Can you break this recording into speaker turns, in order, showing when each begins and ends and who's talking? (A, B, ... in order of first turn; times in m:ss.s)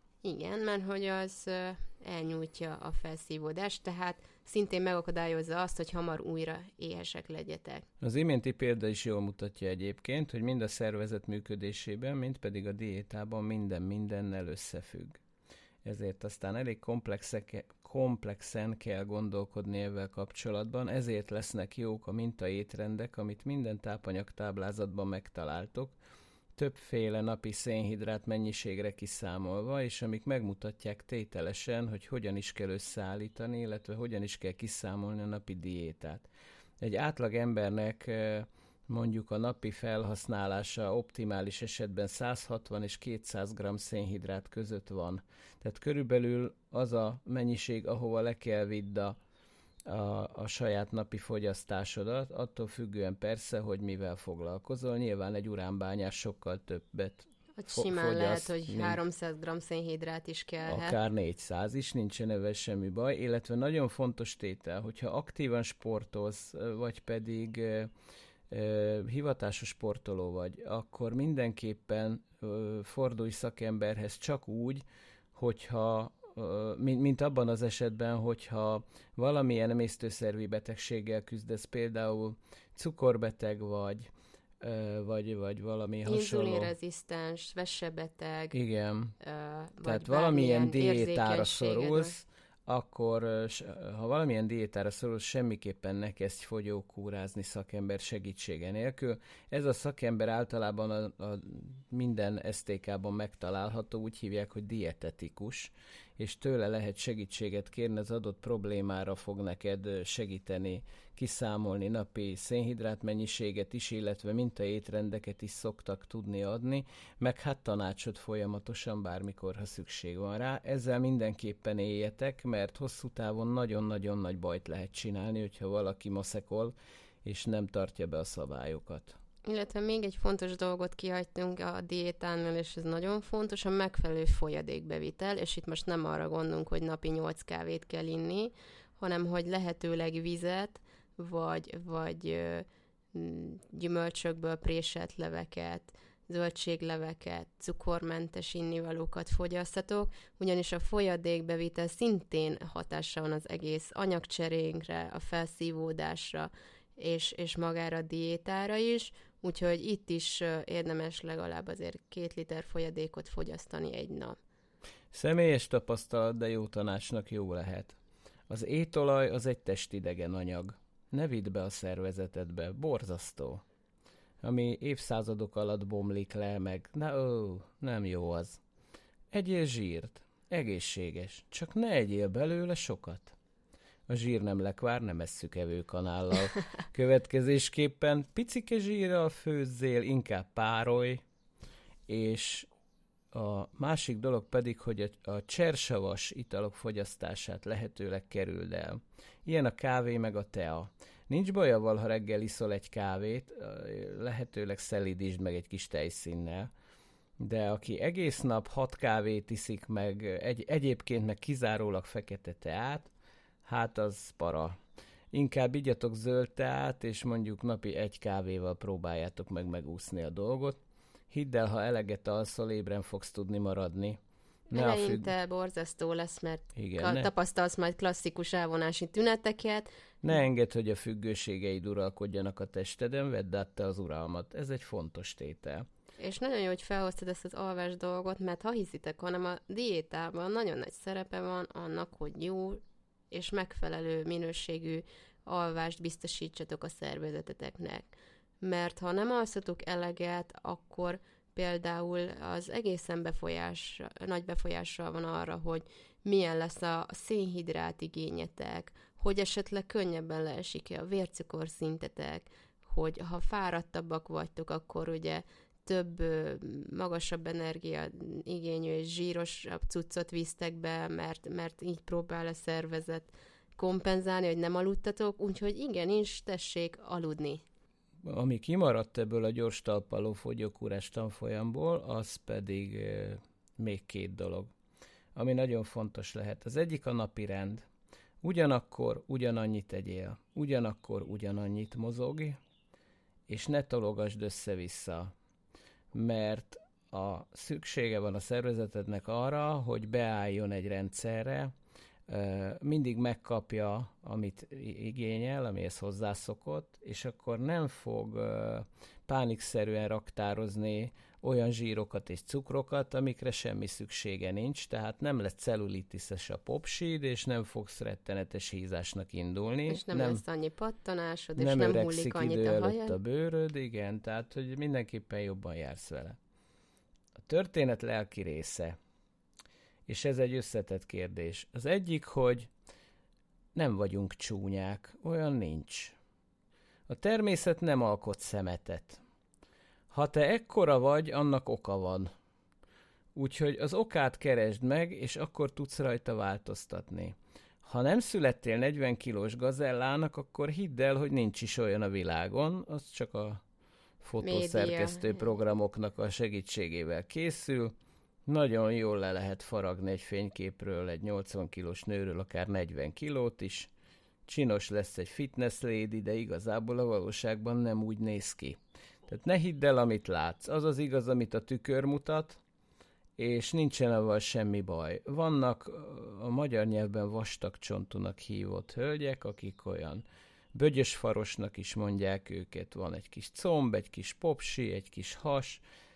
0:00.2-0:07.9 A
0:08.0-0:15.2 B
0:15.8-0:26.0 B
0:26.6-0:36.3 B
0:36.8-0:49.2 B
0:49.9-0:59.0 B
0:57.6-1:01.0 A
1:00.6-1:07.9 B
1:08.5-1:24.1 B
1:24.6-1:26.7 B
1:26.0-1:28.6 A
1:28.5-1:29.2 B
1:29.2-1:32.1 A
1:29.8-2:09.2 B
2:09.4-2:44.4 A
2:45.1-2:48.0 B
2:48.5-2:53.6 B
2:54.4-2:58.6 B
2:59.3-3:03.4 B
3:04.1-3:11.2 B
3:12.1-3:12.7 B
3:13.3-3:26.7 B
3:27.4-3:33.1 B
3:33.6-3:34.7 B
3:35.3-3:40.8 B
3:41.3-3:44.2 B
3:44.7-3:49.9 A
3:44.7-3:45.3 B
3:46.8-3:47.3 B
3:50.2-3:55.8 B
3:56.2-4:02.8 A
4:03.3-4:37.6 A
4:38.2-4:44.7 B
4:45.4-4:47.8 B
4:48.4-4:52.6 B
4:53.5-4:55.3 B
4:56.1-5:01.7 B
5:02.3-5:20.4 B
5:19.9-5:23.2 A
5:21.6-5:26.4 B
5:27.4-5:29.0 B
5:30.1-5:32.7 B
5:33.8-5:36.2 B
5:37.1-5:39.2 B
5:40.1-5:42.3 B
5:43.4-5:53.6 B
5:54.2-5:57.9 B
5:54.4-5:55.5 A
5:58.5-6:03.9 B
6:04.5-6:12.6 B
6:13.4-6:25.8 B